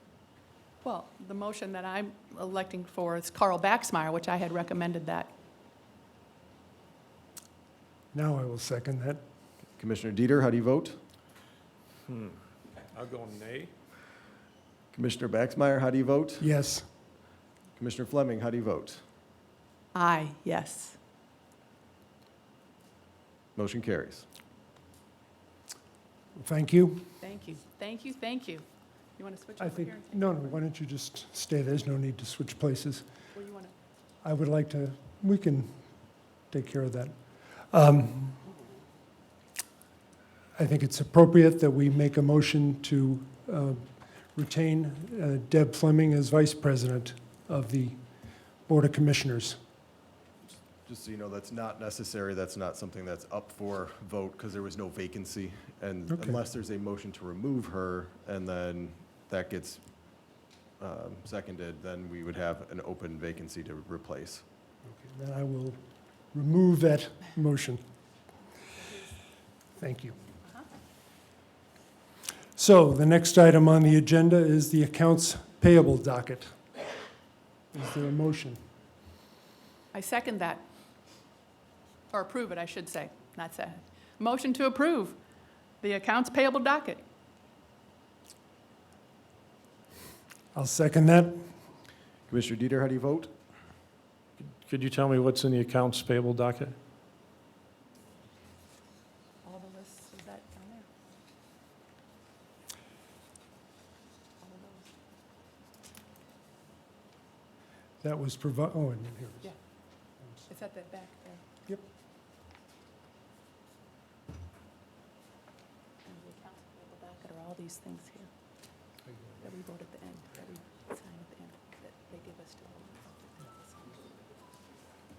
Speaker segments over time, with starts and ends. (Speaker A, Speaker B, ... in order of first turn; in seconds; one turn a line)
Speaker A: 0.8-5.3
Speaker B: 8.1-9.2
Speaker C: 9.8-11.0
Speaker D: 12.1-13.7
Speaker C: 14.9-16.4
Speaker B: 16.4-16.8
Speaker C: 17.8-19.0
Speaker A: 19.9-21.0
Speaker C: 23.6-24.2
Speaker B: 26.4-27.1
Speaker A: 27.2-28.6
Speaker A: 29.2-30.6
Speaker B: 29.6-33.0
Speaker A: 33.3-33.7
Speaker B: 34.2-35.7
Speaker B: 36.5-37.1
Speaker B: 37.7-38.4
Speaker B: 40.5-48.0
Speaker B: 48.7-49.6
Speaker C: 50.8-59.8
Speaker B: 56.1-56.4
Speaker C: 60.8-64.4
Speaker B: 64.8-65.8
Speaker B: 66.3-67.8
Speaker B: 69.8-70.2
Speaker B: 72.5-76.5
Speaker B: 77.7-78.6
Speaker A: 79.9-80.6
Speaker A: 82.1-85.2
Speaker A: 85.8-87.0
Speaker B: 90.5-91.4
Speaker C: 92.3-93.3
Speaker D: 94.4-96.7
Speaker A: 99.4-100.9
Speaker A: 104.4-104.9
Speaker B: 108.0-109.5
Speaker A: 110.5-111.4
Speaker A: 116.0-118.3
Speaker A: 119.4-124.0